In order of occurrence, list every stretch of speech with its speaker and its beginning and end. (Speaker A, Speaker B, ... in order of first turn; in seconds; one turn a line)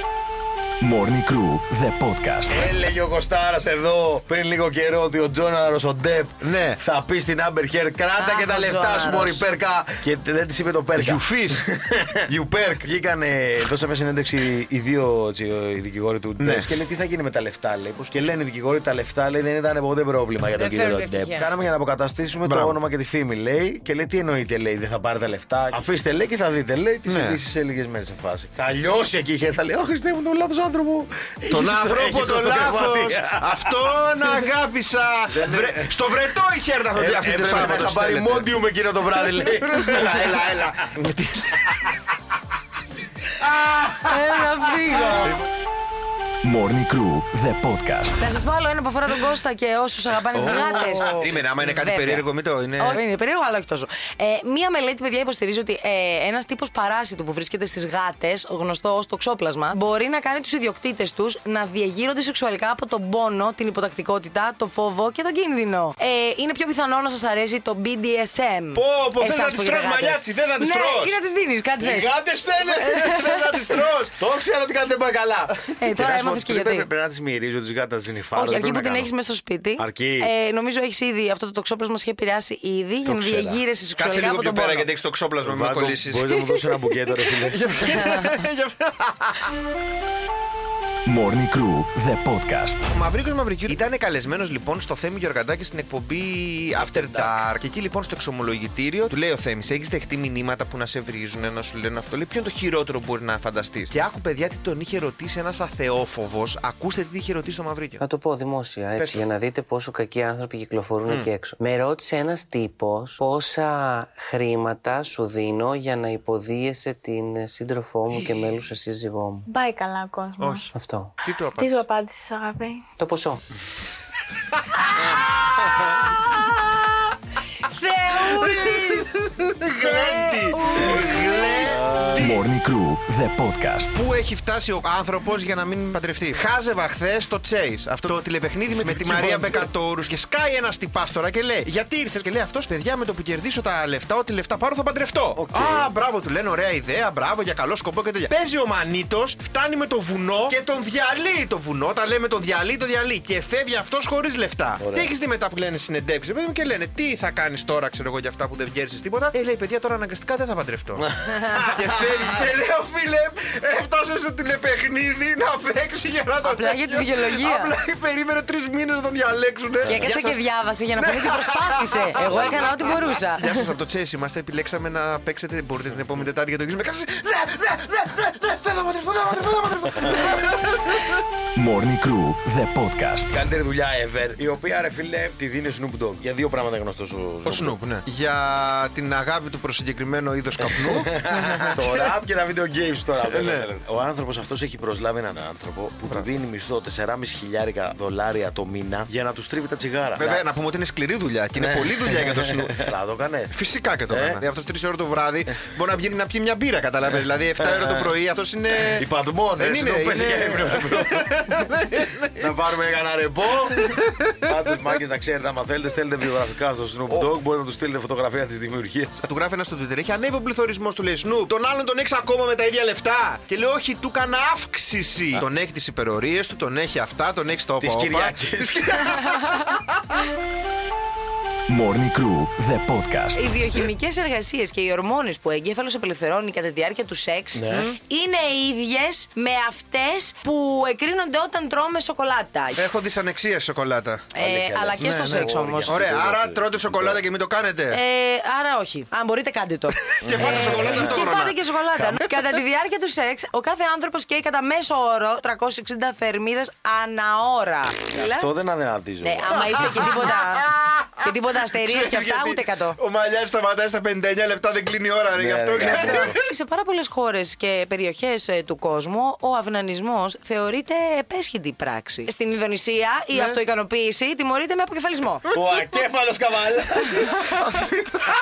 Speaker A: 0.8-2.6
Speaker B: 2.5-33.9
Speaker C: 6.4-6.8
Speaker D: 8.2-9.4
Speaker C: 11.0-11.7
Speaker C: 16.4-16.7
Speaker D: 20.6-21.5
Speaker C: 22.4-22.8
Speaker C: 27.1-27.4
Speaker C: 31.5-38.5
Speaker B: 35.3-36.0
Speaker B: 37.0-40.7
Speaker C: 39.7-41.7
Speaker D: 44.0-45.4
Speaker A: 46.4-48.2
Speaker D: 48.2-52.3
Speaker B: 50.4-51.4
Speaker C: 50.4-53.0
Speaker D: 52.8-73.4
Speaker C: 68.7-71.2
Speaker B: 71.8-73.0
Speaker C: 73.0-74.2
Speaker B: 74.2-79.1
Speaker D: 75.8-76.9
Speaker D: 78.3-84.9
Speaker B: 79.8-80.3
Speaker B: 83.0-83.6
Speaker C: 84.0-86.5
Speaker B: 85.4-87.6
Speaker C: 87.5-89.5
Speaker A: 91.1-92.8
Speaker C: 92.9-108.0
Speaker B: 96.8-97.4
Speaker E: 108.0-119.5
Speaker C: 109.0-109.3
Speaker C: 111.0-111.3
Speaker C: 118.2-118.5
Speaker F: 119.5-120.7
Speaker C: 120.4-120.7
Speaker E: 120.7-121.1
Speaker C: 121.2-121.8
Speaker F: 121.5-122.8
Speaker E: 123.0-123.4
Speaker D: 127.7-129.2
Speaker C: 129.6-132.4
Speaker D: 129.8-131.8
Speaker B: 131.6-132.3
Speaker A: 132.2-133.9
Speaker C: 133.9-161.0
Speaker B: 138.7-139.7
Speaker B: 145.4-145.9
Speaker B: 154.8-155.1
Speaker B: 161.0-162.0
Speaker C: 161.7-170.4
Speaker D: 166.4-167.7
Speaker D: 169.9-173.5
Speaker C: 171.0-181.2
Speaker A: 181.6-183.3
Speaker B: 183.3-187.8
Speaker C: 187.4-192.0
Speaker B: 190.6-200.4
Speaker C: 193.2-193.7
Speaker C: 200.2-202.9
Speaker B: 201.6-203.6
Speaker C: 203.5-209.1
Speaker B: 204.1-204.4
Speaker B: 207.6-208.1
Speaker B: 208.8-211.4
Speaker C: 209.6-212.5
Speaker B: 212.4-213.9
Speaker C: 213.8-214.1
Speaker B: 214.4-219.2
Speaker C: 219.2-229.6
Speaker B: 227.8-228.9
Speaker A: 231.7-233.4
Speaker D: 233.3-242.9
Speaker B: 237.6-237.9
Speaker C: 242.8-244.3
Speaker D: 244.3-246.0
Speaker B: 244.4-247.2
Speaker C: 245.9-248.0
Speaker D: 247.9-258.5
Speaker B: 250.2-251.4
Speaker C: 250.2-251.6
Speaker B: 258.1-259.8
Speaker D: 259.2-260.7
Speaker C: 259.8-260.3
Speaker D: 261.2-263.0
Speaker C: 261.8-266.4
Speaker B: 265.4-266.3
Speaker D: 265.9-275.4
Speaker C: 273.3-273.6
Speaker B: 275.5-277.8